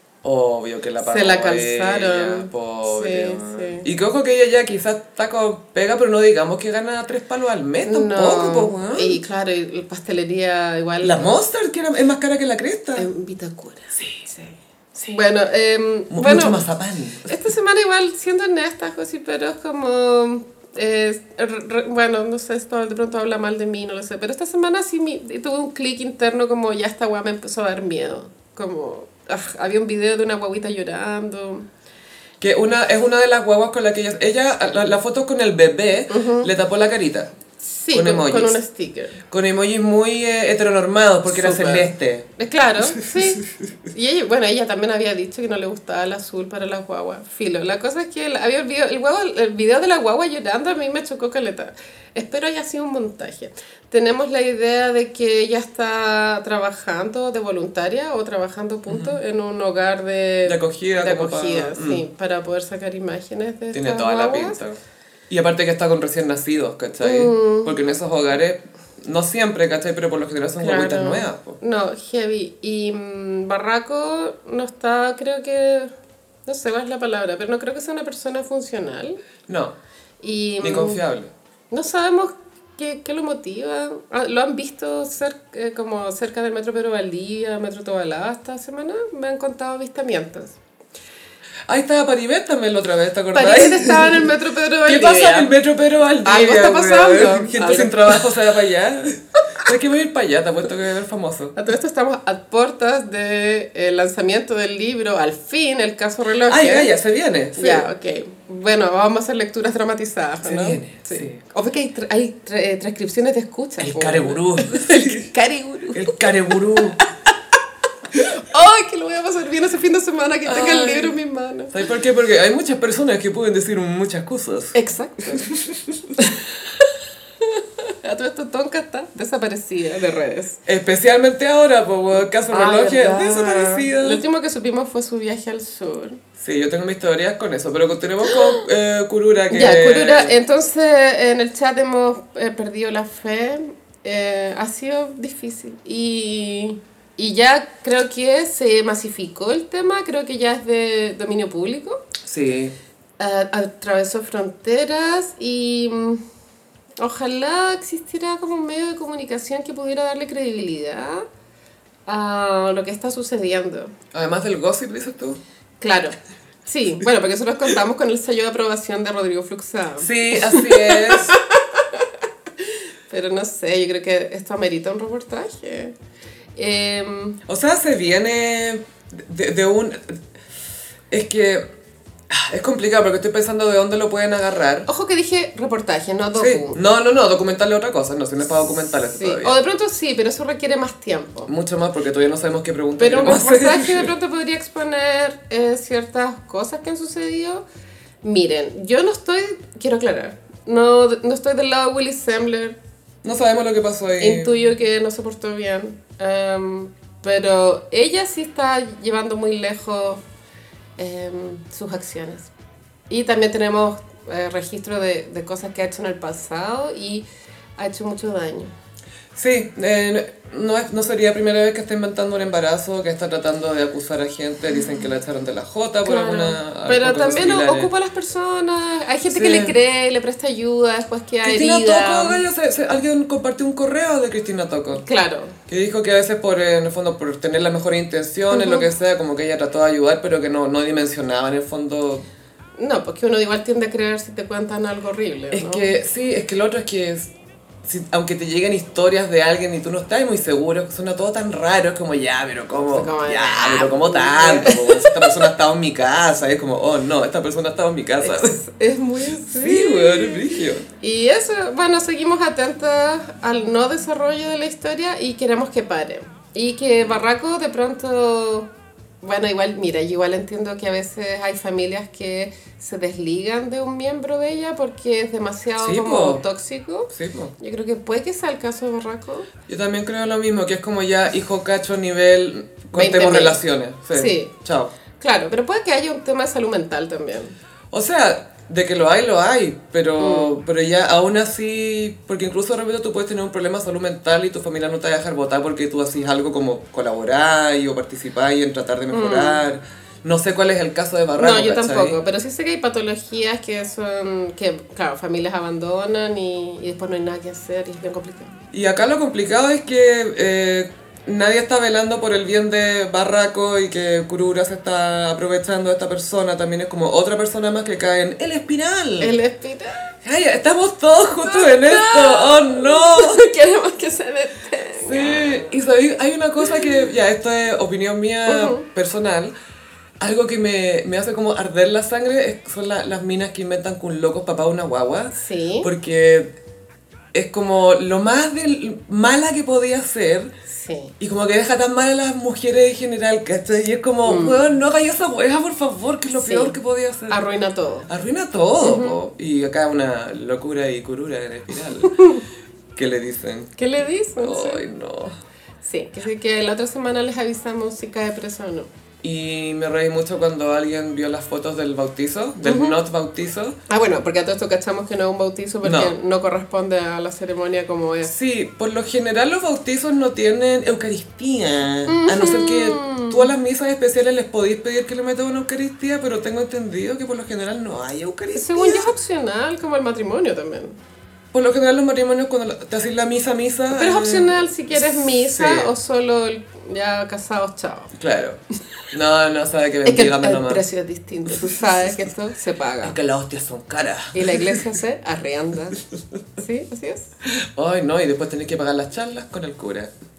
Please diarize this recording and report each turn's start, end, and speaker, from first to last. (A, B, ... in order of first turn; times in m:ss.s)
0:00.2-0:09.2 A
0:01.0-0:03.9 B
0:07.8-0:11.4 B
0:11.0-0:13.1 A
0:13.0-0:16.6 B
0:16.1-0:17.4 A
0:17.2-0:31.7 B
0:32.4-0:37.3 A
0:36.1-0:36.5 B
0:37.6-0:39.2 B
0:37.9-0:38.6 A
0:39.3-0:42.3 A
0:41.3-1:04.6 B
0:58.9-0:59.2 A
1:00.5-1:02.0 A
1:03.7-1:04.8 A
1:05.3-1:11.6 A
1:07.0-1:07.7 B
1:10.6-1:15.9 B
1:16.5-1:19.2 B
1:19.5-1:19.8 A
1:20.2-1:21.0 B
1:20.6-1:21.3 A
1:21.7-1:30.6 B
1:31.7-1:34.3 A
1:33.3-1:35.6 B
1:34.8-1:41.6 A
1:36.2-1:38.3 B
1:41.6-1:46.9 B
1:46.5-1:47.9 A
1:47.6-1:57.1 B
1:50.4-1:51.4 A
1:53.8-1:55.3 A
1:55.9-1:57.0 A
1:58.2-2:01.8 B
2:00.5-2:01.2 A
2:01.7-2:06.1 A
2:04.7-2:05.6 B
2:06.2-2:10.6 B
2:10.7-2:14.2 A
2:12.5-2:16.2 B
2:16.4-2:20.3 A
2:18.3-2:18.6 B
2:19.5-2:32.0 B
2:32.2-2:32.8 A
2:33.2-2:36.2 B
2:37.0-2:41.3 B
2:42.1-2:43.9 B
2:44.1-2:45.4 A
2:45.8-2:52.1 B
2:50.0-2:51.4 A
2:52.6-2:56.0 B
2:56.6-2:57.4 B
2:57.5-3:00.2 A
3:01.1-3:01.6 A
3:02.3-3:04.9 A
3:04.9-3:06.8 B
3:06.4-3:09.5 A
3:09.2-3:11.5 B
3:11.5-3:14.1 A
3:13.0-3:17.6 B
3:18.2-3:22.8 B
3:23.2-3:24.6 A
3:24.2-3:30.2 B
3:31.0-3:32.5 B
3:33.1-3:37.2 B
3:37.8-3:38.7 B
3:39.4-3:47.9 A
3:46.0-3:52.4 B
3:49.3-3:49.8 A
3:51.4-3:55.0 A
3:55.0-3:55.6 B
3:55.7-4:02.2 A
3:58.5-3:58.9 B
4:02.8-4:05.9 B
4:05.5-4:07.3 A
4:07.8-4:18.6 A
4:12.9-4:15.4 B
4:18.2-4:28.7 B
4:19.4-4:20.9 A
4:29.2-4:39.5 B
4:35.8-4:36.4 A
4:37.1-4:37.5 A
4:39.7-4:44.9 A
4:42.9-4:43.6 B
4:44.1-4:44.5 B
4:45.2-4:47.6 B
4:47.9-5:02.2 A
4:50.2-4:50.6 B
4:59.1-4:59.6 B
5:01.4-5:08.6 B
5:08.7-5:19.4 A
5:19.2-5:20.0 B
5:20.2-5:23.4 A
5:21.4-5:25.7 B
5:25.0-5:29.5 A
5:28.5-5:28.8 B
5:30.2-5:36.5 A
5:35.3-5:35.9 B
5:37.3-5:40.5 A
5:40.7-5:41.1 B
5:41.2-5:47.4 A
5:44.2-5:44.6 B
5:46.4-5:46.8 B
5:47.3-5:48.1 B
5:48.1-5:52.2 A
5:48.8-5:49.2 B
5:52.0-5:52.4 B
5:53.0-5:53.7 A
5:53.8-5:54.8 B
5:54.4-5:55.4 A
5:55.8-5:58.9 B
5:59.2-6:03.8 A
6:02.6-6:03.0 B
6:03.9-6:08.3 B
6:05.8-6:06.2 A
6:08.3-6:19.1 A
6:12.1-6:13.5 B
6:18.6-6:21.0 B
6:21.5-6:25.9 A
6:23.9-6:28.1 B
6:28.2-6:28.6 A
6:29.1-6:30.8 A
6:30.0-6:33.2 B
6:31.5-6:31.8 A
6:33.0-6:34.8 A
6:34.3-6:36.0 B
6:36.6-6:37.3 B
6:37.5-6:40.1 A